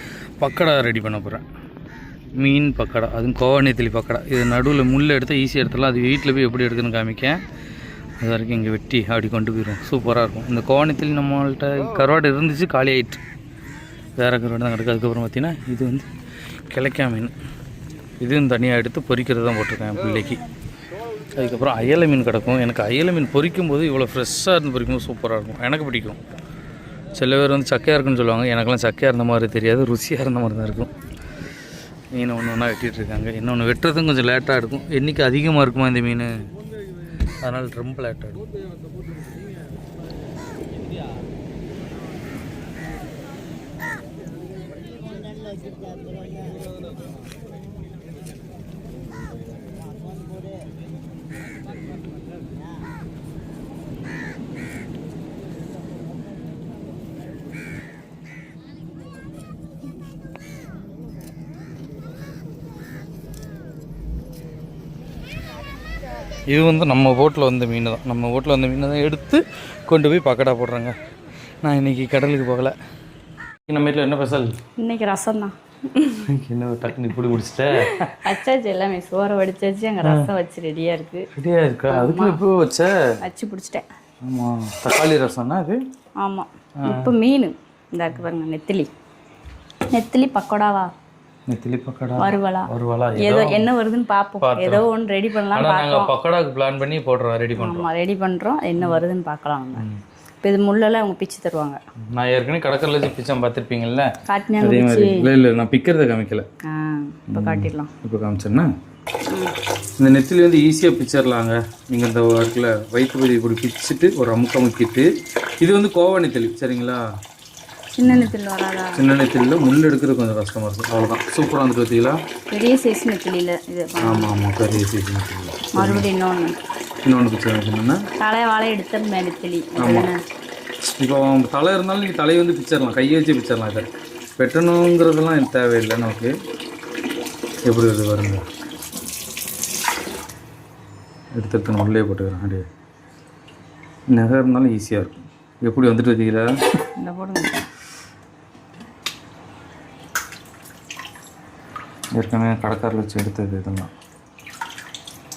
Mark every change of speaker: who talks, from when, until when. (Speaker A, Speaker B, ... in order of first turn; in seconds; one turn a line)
Speaker A: 0.4-1.5
Speaker A: 2.4-7.4
Speaker A: 8.2-13.2
Speaker A: 14.2-16.1
Speaker A: 16.7-17.3
Speaker A: 18.2-20.4
Speaker A: 21.3-26.2
Speaker A: 27.1-30.9
Speaker A: 32.1-36.4
Speaker A: 37.4-38.4
Speaker A: 66.5-71.0
Speaker A: 71.6-72.8
Speaker A: 73.7-74.5
Speaker B: 74.8-76.3
Speaker A: 76.2-78.4
Speaker B: 77.8-81.3
Speaker A: 80.0-80.3
Speaker A: 81.3-83.0
Speaker B: 81.9-82.4
Speaker B: 83.2-83.9
Speaker A: 84.2-85.8
Speaker B: 86.2-88.9
Speaker A: 86.8-87.1
Speaker B: 89.9-90.9
Speaker A: 91.5-93.7
Speaker B: 92.2-96.1
Speaker A: 94.4-94.9
Speaker A: 95.5-97.9
Speaker B: 97.6-99.9
Speaker A: 99.8-100.0
Speaker B: 100.4-101.8
Speaker A: 102.1-106.5
Speaker B: 104.3-105.3
Speaker B: 106.7-107.9
Speaker A: 107.3-108.7
Speaker B: 109.3-109.5
Speaker A: 110.0-115.1
Speaker A: 115.6-117.0
Speaker B: 117.9-119.0
Speaker A: 118.0-118.3
Speaker A: 119.0-122.2
Speaker B: 122.5-124.3
Speaker A: 124.0-126.1
Speaker B: 125.7-126.5
Speaker A: 127.0-128.0
Speaker B: 128.2-130.2
Speaker A: 129.8-130.1
Speaker A: 130.8-136.3
Speaker A: 137.7-138.4
Speaker A: 141.3-142.7
Speaker A: 144.1-146.5
Speaker B: 147.0-147.7
Speaker A: 152.2-153.9